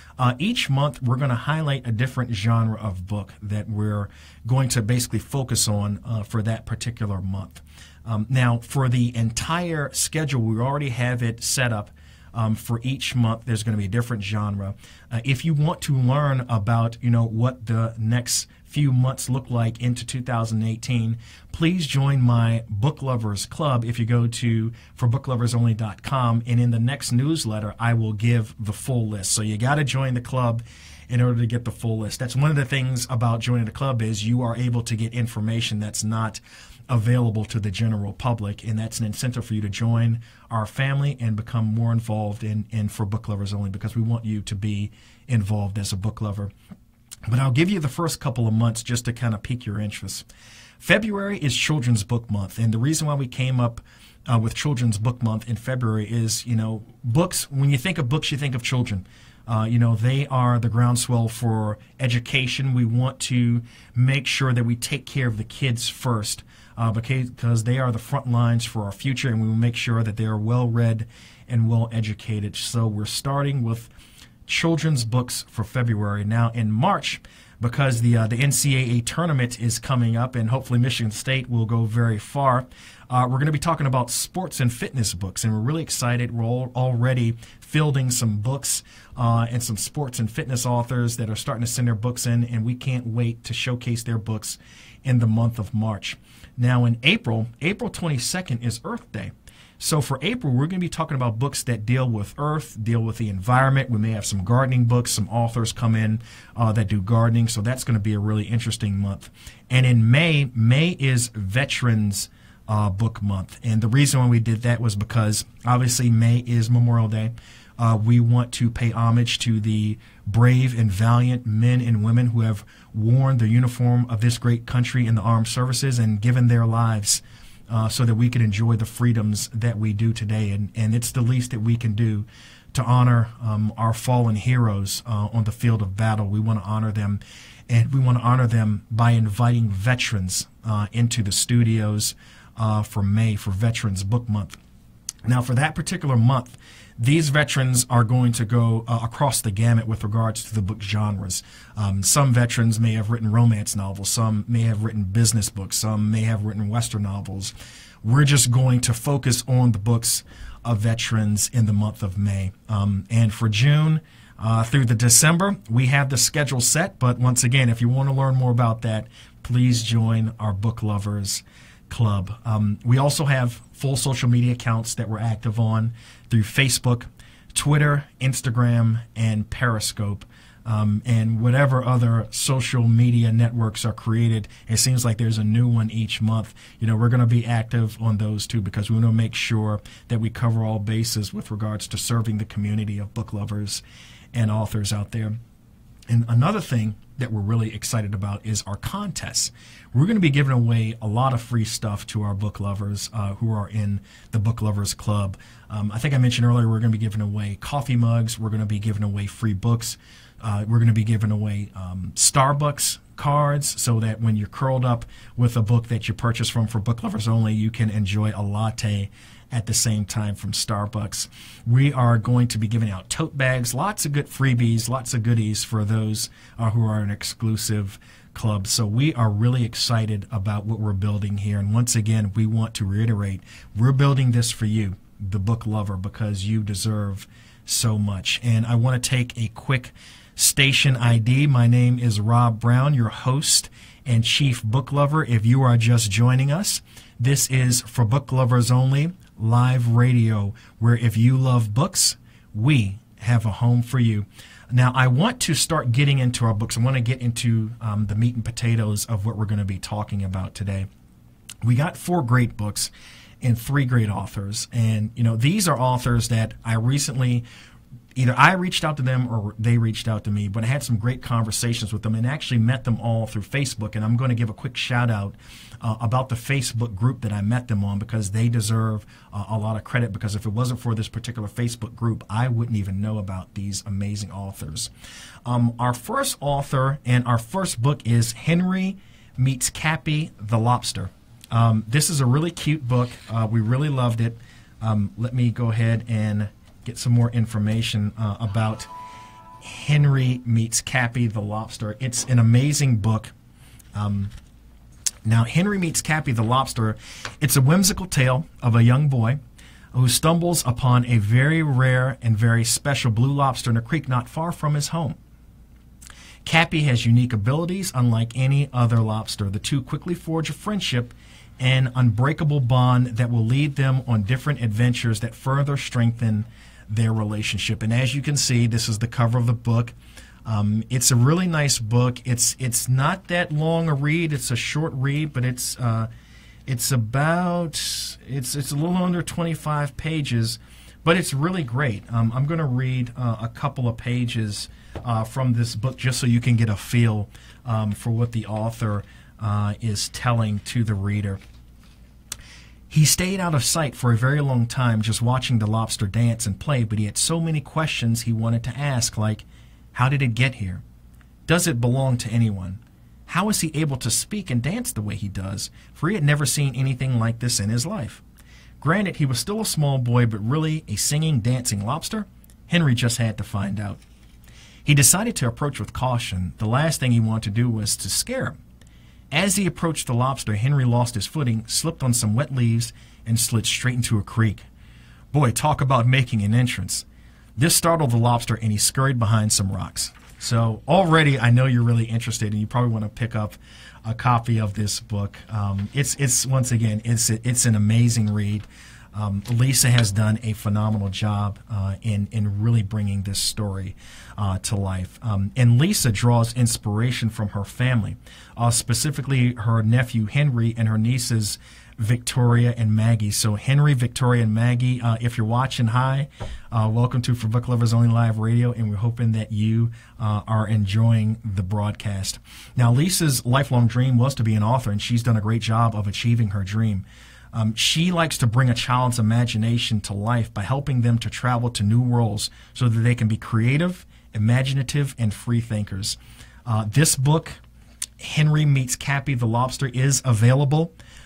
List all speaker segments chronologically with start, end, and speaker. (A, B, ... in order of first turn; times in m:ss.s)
0:00.2-0:46.5 A
0:47.3-0:50.2 A
0:50.8-1:13.9 A
1:14.5-2:24.6 A
2:25.2-3:13.8 A
3:14.3-3:15.4 A
3:16.1-4:20.9 A
4:21.6-4:27.4 A
4:28.2-4:44.9 A
4:45.4-4:58.9 A
4:59.6-5:03.3 A
5:03.9-5:04.3 A
5:05.2-5:09.4 A
5:09.9-5:15.2 A
5:16.4-5:36.1 A
5:36.7-5:51.4 A
5:52.9-6:00.8 A
6:01.5-6:08.2 A
6:08.8-6:14.0 A
6:14.8-6:18.6 A
6:19.3-6:24.6 A
6:25.3-6:27.0 A
6:27.6-7:17.6 A
7:18.2-7:20.9 A